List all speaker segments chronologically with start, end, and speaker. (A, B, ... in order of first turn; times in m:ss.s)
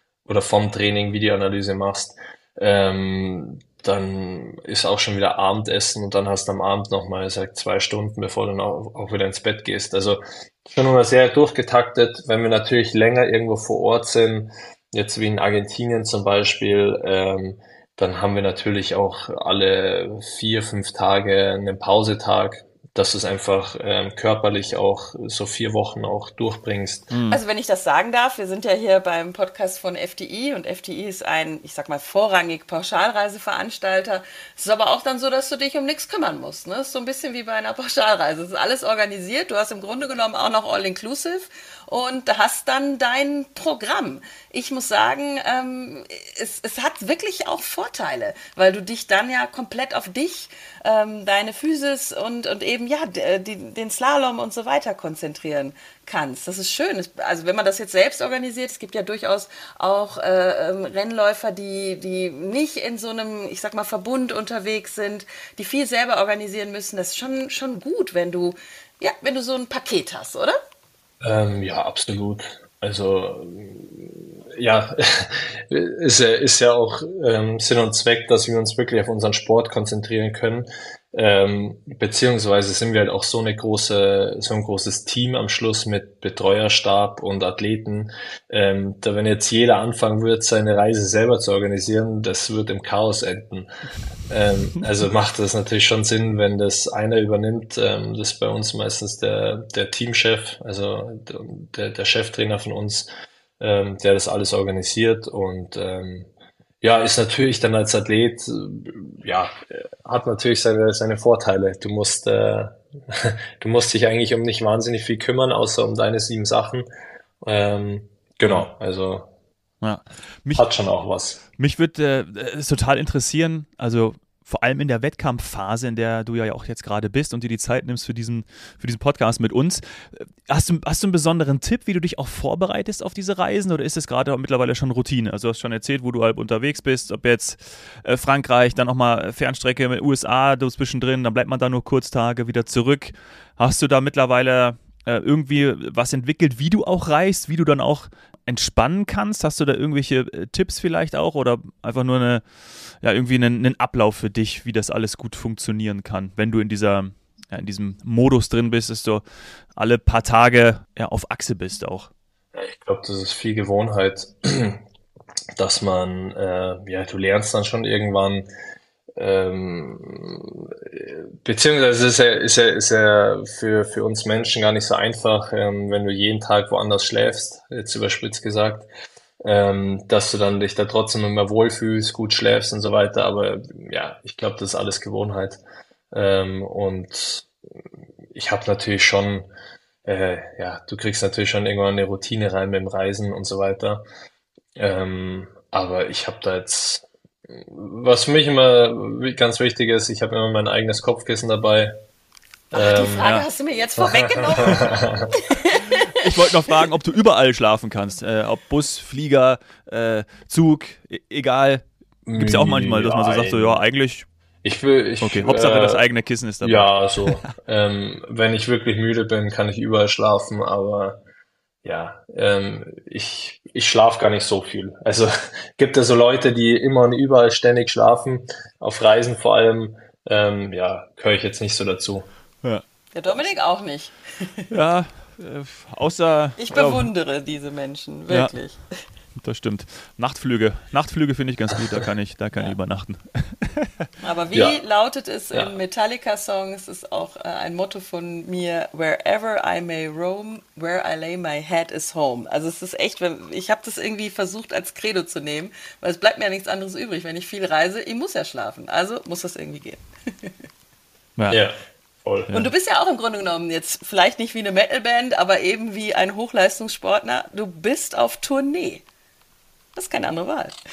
0:00.2-0:27.1 A
0:27.1-0:27.4 B
0:27.3-1:10.6 C
1:11.2-1:33.7 A
1:34.3-1:46.3 A
1:46.8-1:56.9 A
1:57.4-1:59.3 A
1:59.8-2:00.6 B
2:00.5-2:01.4 A
2:01.6-2:32.4 B
2:33.0-2:39.2 B
2:39.7-2:42.1 B
2:42.5-2:44.8 A
2:45.6-2:48.5 A
2:49.2-2:58.9 A
2:59.4-3:05.6 A
3:06.1-3:07.5 A
3:08.3-3:09.5 A
3:10.0-3:14.0 A
3:14.8-3:21.9 A
3:22.7-3:23.3 A
3:22.7-3:26.8 C
3:23.2-3:23.4 B
3:24.0-3:25.3 A
3:26.0-3:31.8 B
3:32.2-3:33.8 A
3:32.4-3:34.3 B
3:34.6-3:36.0 A
3:35.2-3:37.5 B
3:36.6-3:41.2 A
3:41.8-3:52.3 A
3:53.1-3:54.7 C
3:54.7-3:57.1 B
3:56.6-3:58.8 C
3:58.3-3:58.6 B
3:59.4-4:03.9 B
4:04.2-4:20.5 C
4:04.5-4:04.8 A
4:21.5-4:22.5 A
4:22.5-4:29.0 C
4:30.0-4:30.7 C